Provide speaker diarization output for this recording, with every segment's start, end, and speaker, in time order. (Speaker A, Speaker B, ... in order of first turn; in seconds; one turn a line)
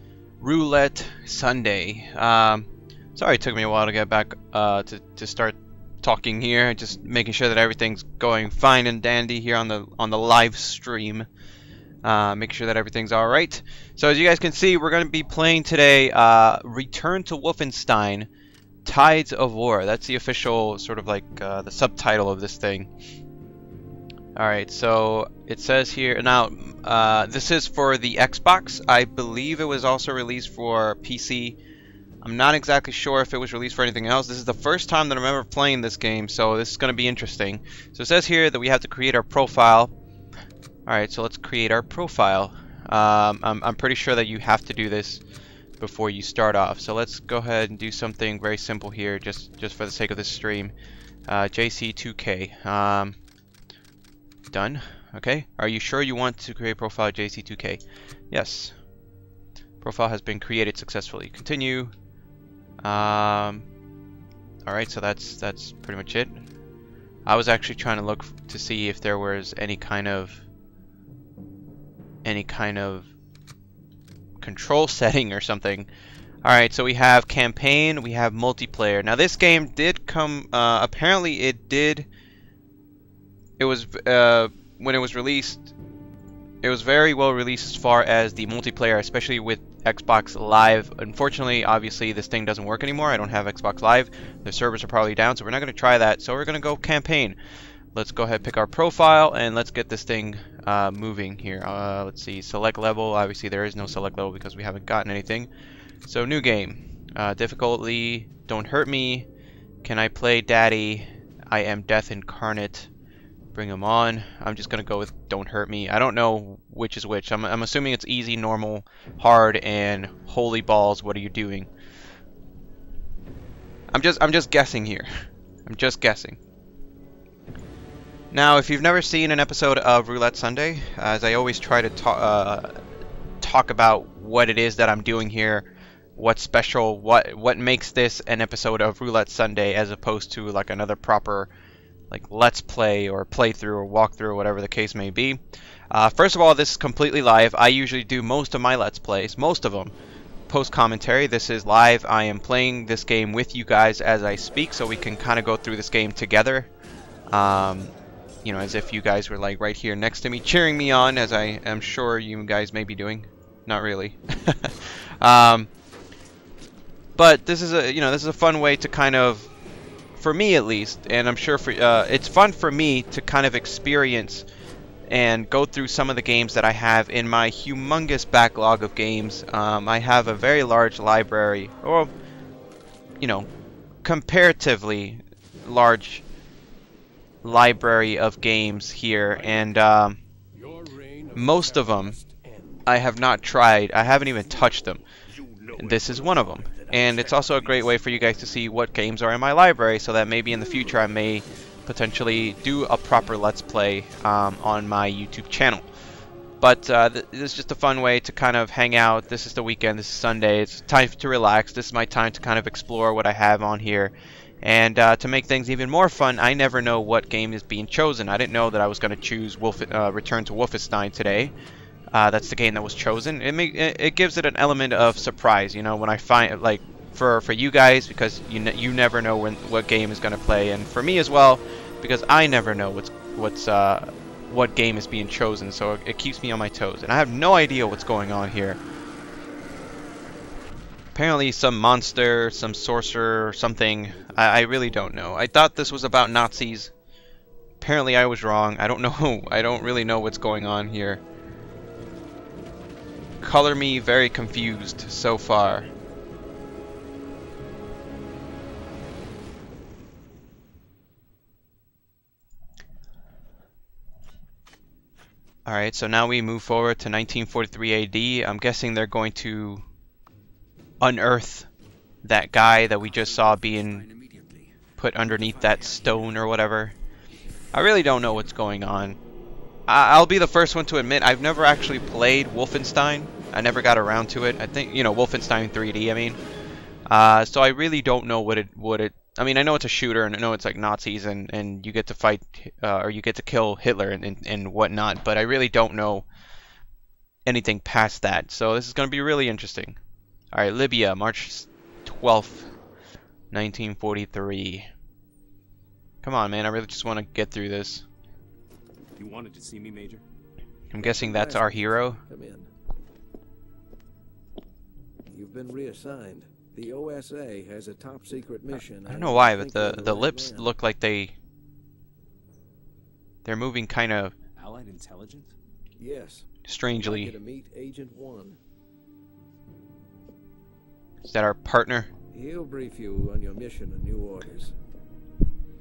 Speaker A: 0.4-11.3
Speaker A: 12.0-18.3
Speaker A: 18.8-22.9
Speaker A: 24.3-31.6
Speaker A: 32.2-39.9
Speaker A: 40.9-45.2
Speaker A: 45.8-50.7
Speaker A: 51.3-53.2
Speaker A: 54.5-58.7
Speaker A: 59.8-61.9
Speaker A: 62.8-63.7
Speaker A: 64.6-66.4
Speaker A: 67.2-70.4
Speaker A: 72.2-73.1
Speaker A: 74.4-75.9
Speaker A: 76.4-82.1
Speaker A: 83.6-85.7
Speaker A: 86.6-97.4
Speaker A: 97.9-105.5
Speaker A: 106.0-109.3
Speaker A: 109.8-112.9
Speaker A: 113.5-121.7
Speaker A: 123.9-125.1
Speaker A: 125.7-126.4
Speaker A: 128.3-132.8
Speaker A: 133.4-141.5
Speaker A: 142.1-145.4
Speaker A: 145.9-149.9
Speaker A: 150.5-156.7
Speaker A: 157.3-157.9
Speaker A: 158.4-165.7
Speaker A: 167.2-169.5
Speaker A: 170.2-174.4
Speaker A: 175.1-182.1
Speaker A: 183.2-183.5
Speaker A: 184.0-186.2
Speaker A: 187.4-190.2
Speaker B: 189.3-189.7
Speaker B: 190.6-192.9
Speaker A: 191.3-192.2
Speaker A: 192.8-195.0
Speaker C: 195.2-198.4
Speaker A: 195.7-205.9
Speaker A: 206.6-221.5
Speaker A: 222.1-238.8
Speaker A: 241.1-246.9
Speaker C: 244.2-245.2
Speaker A: 247.8-251.2
Speaker A: 253.4-255.9
Speaker A: 265.7-269.9
Speaker A: 271.0-271.7
Speaker A: 272.2-274.1
Speaker C: 272.9-274.7
Speaker A: 275.0-276.9
Speaker C: 275.3-276.4
Speaker A: 277.7-279.2
Speaker A: 279.9-286.4
Speaker A: 287.1-296.2
Speaker A: 297.4-300.0
Speaker A: 300.5-302.7
Speaker A: 303.5-304.9
Speaker A: 306.2-308.1
Speaker C: 309.1-310.2
Speaker A: 310.9-312.2
Speaker B: 310.9-312.7
Speaker B: 315.2-320.7
Speaker A: 318.7-321.4
Speaker A: 323.4-324.3
Speaker C: 324.6-325.6
Speaker B: 326.0-328.6
Speaker A: 326.6-327.4
Speaker A: 331.2-332.1
Speaker B: 332.3-334.8